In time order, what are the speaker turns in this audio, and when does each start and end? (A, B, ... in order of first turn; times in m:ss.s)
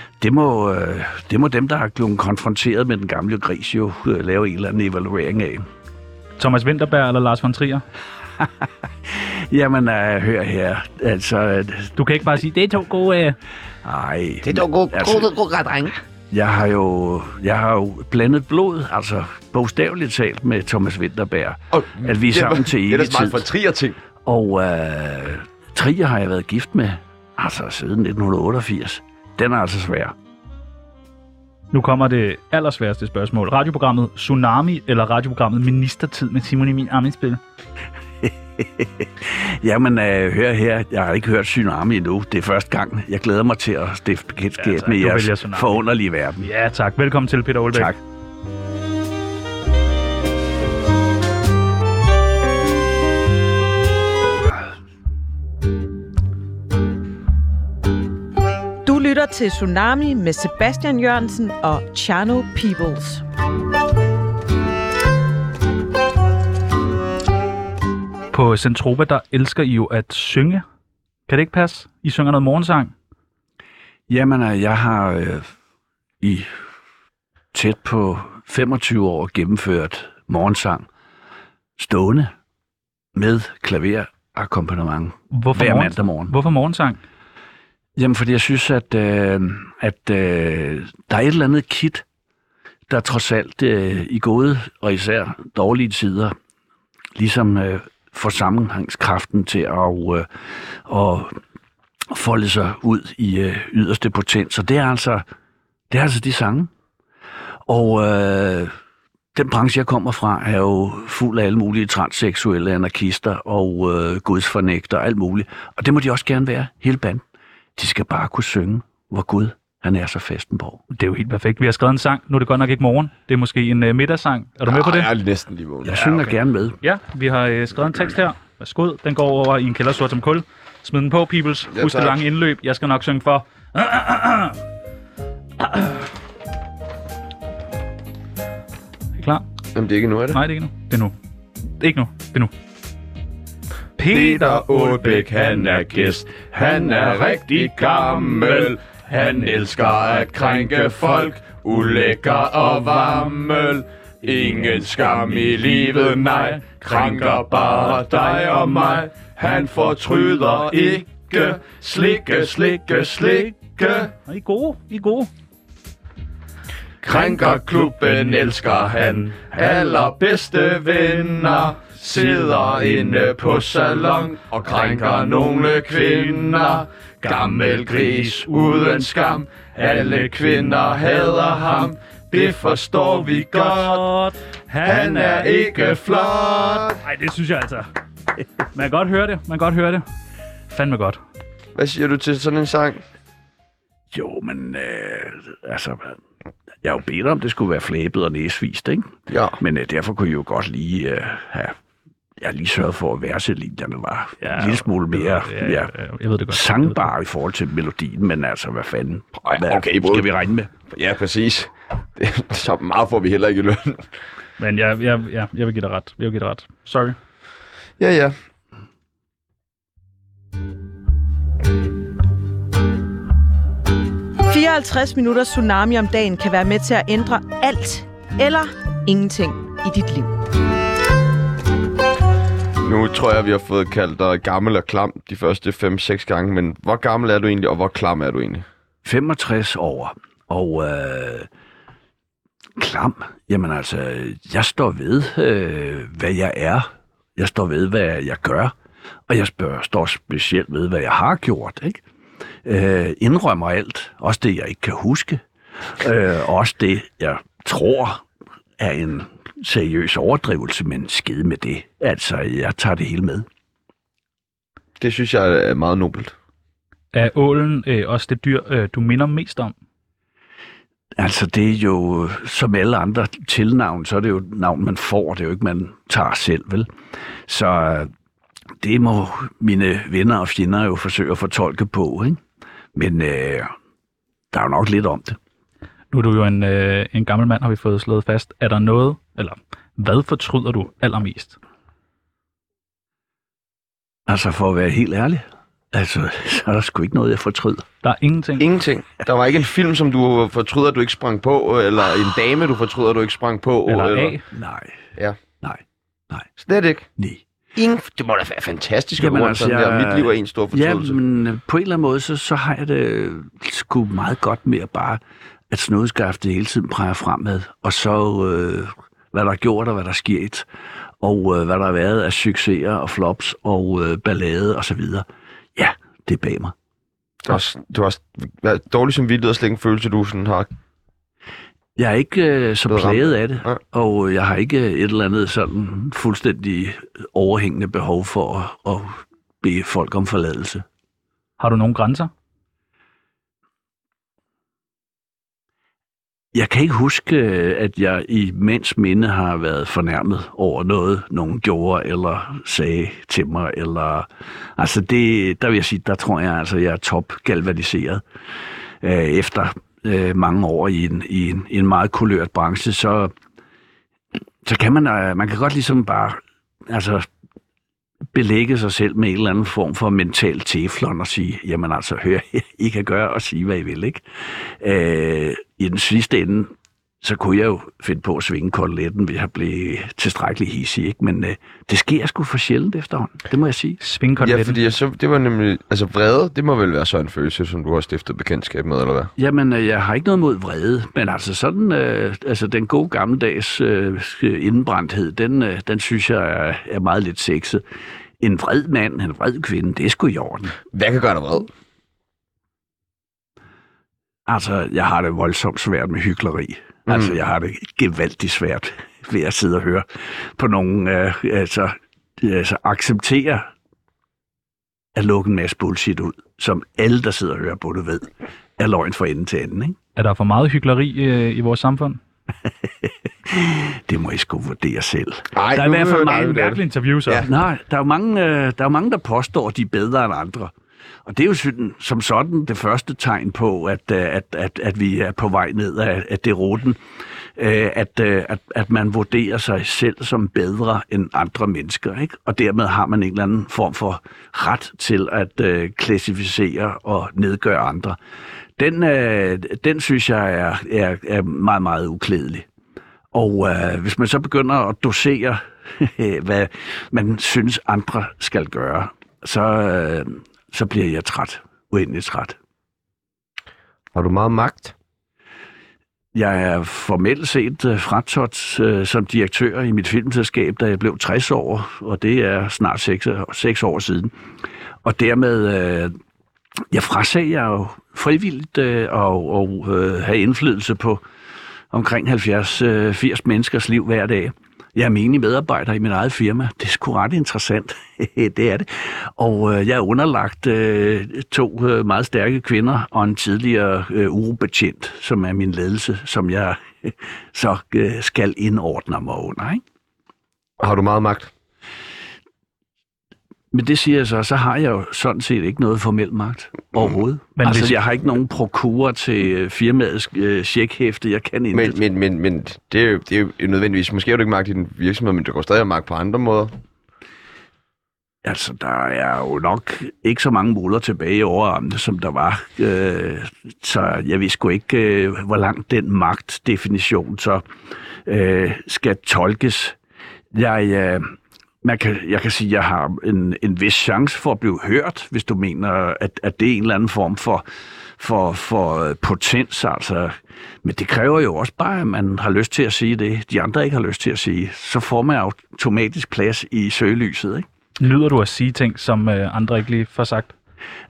0:00.2-0:05.6 A
0:06.4-0:07.8 B
0:08.4-0:12.0 A
0:12.0-0:13.4 B
0:13.8-0:15.3 A
0:14.4-0:15.9 C
0:16.3-0:23.4 A
0:21.7-0:24.0 C
0:24.2-0:30.1 A
0:31.7-0:37.4 B
0:38.2-0:46.5 A
0:44.6-0:45.8 B
0:46.4-0:47.9 B
0:58.8-1:03.2 D
1:08.3-1:10.6 B
1:11.3-1:12.9 B
1:14.1-1:15.5 A
1:16.2-1:16.5 A
1:17.5-1:20.8 A
1:21.8-1:22.3 A
1:23.1-1:26.3 A
1:25.3-1:27.0 B
1:28.0-1:32.0 A
1:32.9-1:36.3 A
1:37.2-1:41.4 A
1:42.1-1:45.2 A
1:45.9-1:46.7 A
1:47.7-1:48.7 A
1:49.3-1:57.2 A
1:57.8-2:00.8 A
2:00.9-2:05.1 B
2:04.7-2:06.0 C
2:05.8-2:06.8 A
2:05.9-2:06.3 B
2:06.8-2:14.6 B
2:11.7-2:12.2 C
2:15.6-2:16.0 B
2:19.2-2:19.4 B
2:19.7-2:20.4 C
2:20.3-2:21.1 B
2:21.8-2:22.5 B
2:24.0-2:25.2 B
2:24.1-2:44.1 E
2:44.2-2:45.3 B
2:47.0-3:04.1 E
3:03.6-3:05.6 B
3:04.8-3:07.0 E
3:06.9-3:07.9 B
3:08.7-3:10.0 B
3:10.7-3:11.2 B
3:11.7-3:13.0 C
3:14.1-3:16.2 A
3:16.8-3:21.7 A
3:19.3-3:19.6 C
3:22.4-3:25.9 A
3:24.4-3:27.1 B
3:26.5-3:30.7 A
3:29.4-3:30.3 C
3:30.9-3:34.1 C
3:34.6-3:37.2 B
3:38.0-3:38.3 C
3:44.5-3:50.3 D
3:52.8-3:58.6 C
3:59.0-4:01.5 A
4:02.8-4:08.7 A
4:09.3-4:12.0 A
4:12.6-4:15.4 A
4:16.0-4:18.2 A
4:18.8-4:23.4 A
4:25.0-4:26.3 C
4:27.1-4:29.7 B
4:31.2-4:36.9 A
4:37.5-4:38.1 A
4:38.8-4:42.4 A
4:42.9-4:43.7 A
4:44.5-4:45.4 A
4:46.1-4:51.6 B
4:54.3-4:57.8 A
4:58.0-4:58.7 B
4:58.6-5:04.4 C
5:03.9-5:04.4 B
5:04.5-5:05.0 A
5:06.6-5:07.1 C
5:07.8-5:11.2 C
5:09.2-5:15.2 A
5:15.7-5:20.6 A
5:21.2-5:25.2 A
5:25.8-5:26.7 A
5:27.4-5:30.7 C
5:32.0-5:40.8 A
5:32.9-5:33.8 C
5:41.6-5:42.3 B
5:46.5-5:58.2 A
5:59.0-6:03.3 A
6:04.6-6:07.2 A
6:08.3-6:24.0 A
6:24.0-6:24.8 B
6:24.4-6:29.3 C
6:29.4-6:37.8 A
6:38.4-6:40.8 A
6:40.9-6:41.7 C
6:44.5-6:50.0 A
6:47.1-6:47.3 C
6:50.6-6:53.7 A
6:55.1-7:00.0 A
7:00.2-7:02.2 B
7:03.0-7:06.6 A
7:05.5-7:07.5 C
7:05.8-7:07.4 B
7:07.4-7:10.7 A
7:11.2-7:17.0 A
7:17.6-7:28.2 A
7:28.8-7:32.6 A
7:33.3-7:42.6 A
7:44.1-7:44.9 C
7:46.3-7:54.3 A
7:55.0-7:56.1 A
7:56.9-8:01.2 A
8:01.9-8:19.8 A
8:20.8-8:21.5 C
8:23.7-8:32.0 A
8:27.6-8:28.0 B
8:31.7-8:36.7 C
8:38.4-8:47.6 A
8:48.2-8:50.0 A
8:50.5-8:57.6 A
8:58.2-9:07.6 A
9:08.0-9:10.5 B